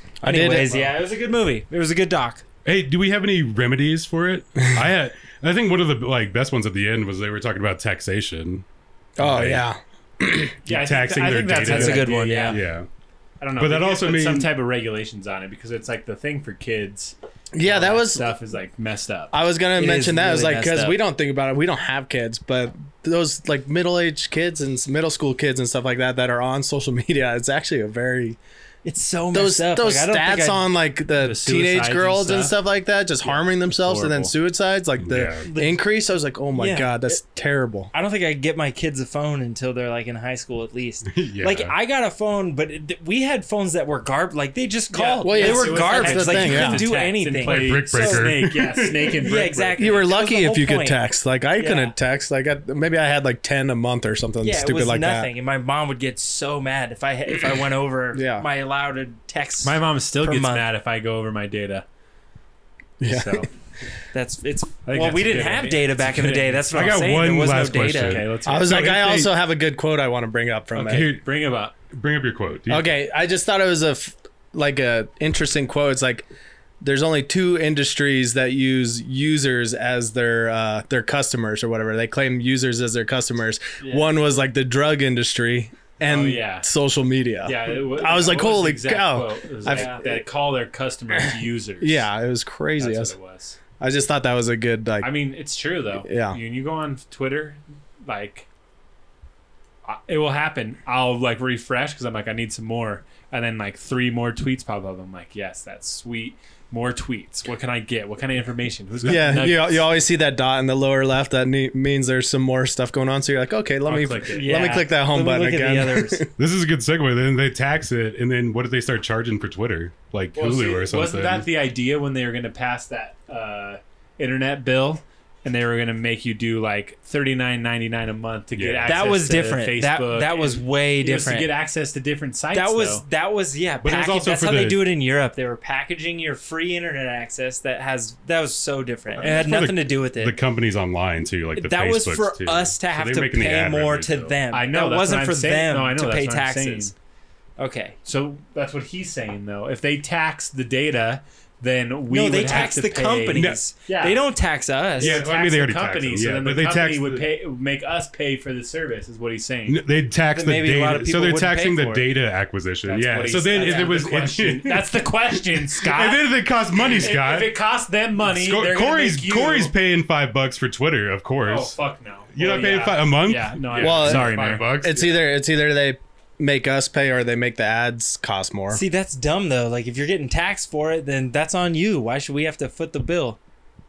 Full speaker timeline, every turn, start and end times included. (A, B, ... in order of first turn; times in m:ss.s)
0:00.2-0:00.9 A
0:00.2-0:02.4 B
0:02.6-0:08.6 C
0:09.2-0:10.6 A
0:09.2-0:09.6 C
0:10.6-0:12.9 C
0:10.7-0:12.6 D
0:11.6-0:12.6 B
0:13.4-0:19.3 D
0:13.6-0:14.5 C
0:17.5-0:18.3 A
0:19.3-0:28.4 A
0:19.8-0:21.0 B
0:28.8-0:30.7 B
0:29.3-0:37.9 A
0:31.2-0:32.6 D
0:33.2-0:34.3 D
0:35.0-0:35.5 C
0:35.5-0:35.8 B
0:36.6-0:37.2 B
0:37.9-0:48.3 B
0:41.1-0:41.8 C
0:44.9-0:50.0 D
0:45.2-0:46.9 A
0:47.4-0:49.2 C
0:49.2-0:51.0 B
0:49.8-0:55.3 A
0:51.6-0:51.9 B
0:54.4-1:00.7 B
0:58.1-0:58.5 A
0:59.6-1:01.8 D
1:03.0-1:03.5 A
1:03.0-1:03.5 D
1:04.1-1:08.2 B
1:04.9-1:06.8 D
1:06.7-1:09.3 C
1:08.0-1:08.9 D
1:08.5-1:11.1 A
1:10.7-1:11.7 D
1:10.8-1:11.2 C
1:11.9-1:12.9 C
1:12.7-1:16.3 A
1:16.8-1:30.2 A
1:26.0-1:26.7 D
1:27.4-1:32.1 D
1:29.7-1:30.0 B
1:31.8-1:33.1 A
1:32.8-1:33.6 D
1:33.8-1:35.1 A
1:35.0-1:38.5 D
1:36.0-1:36.4 A
1:39.9-1:49.9 D
1:49.0-1:49.4 C
1:49.0-1:56.3 A
1:53.8-1:54.8 D
1:54.4-1:56.3 B
1:56.4-2:01.5 C
2:00.4-2:13.0 D
2:08.6-2:09.1 C
2:08.8-2:11.5 B
2:12.5-2:20.4 B
2:13.8-2:14.9 C
2:19.2-2:24.4 C
2:21.6-2:26.9 B
2:24.5-2:26.9 D
2:27.6-2:28.0 B
2:28.1-2:34.2 D
2:32.1-2:35.2 B
2:33.3-2:33.6 C
2:35.0-2:37.3 C
2:35.0-2:39.8 D
2:39.7-2:47.5 C
2:40.3-2:42.1 B
2:42.8-2:49.7 D
2:43.5-2:43.9 B
2:48.2-2:51.7 C
2:51.4-2:54.7 D
2:52.4-2:55.2 C
2:53.8-2:58.8 A
2:58.7-3:03.4 B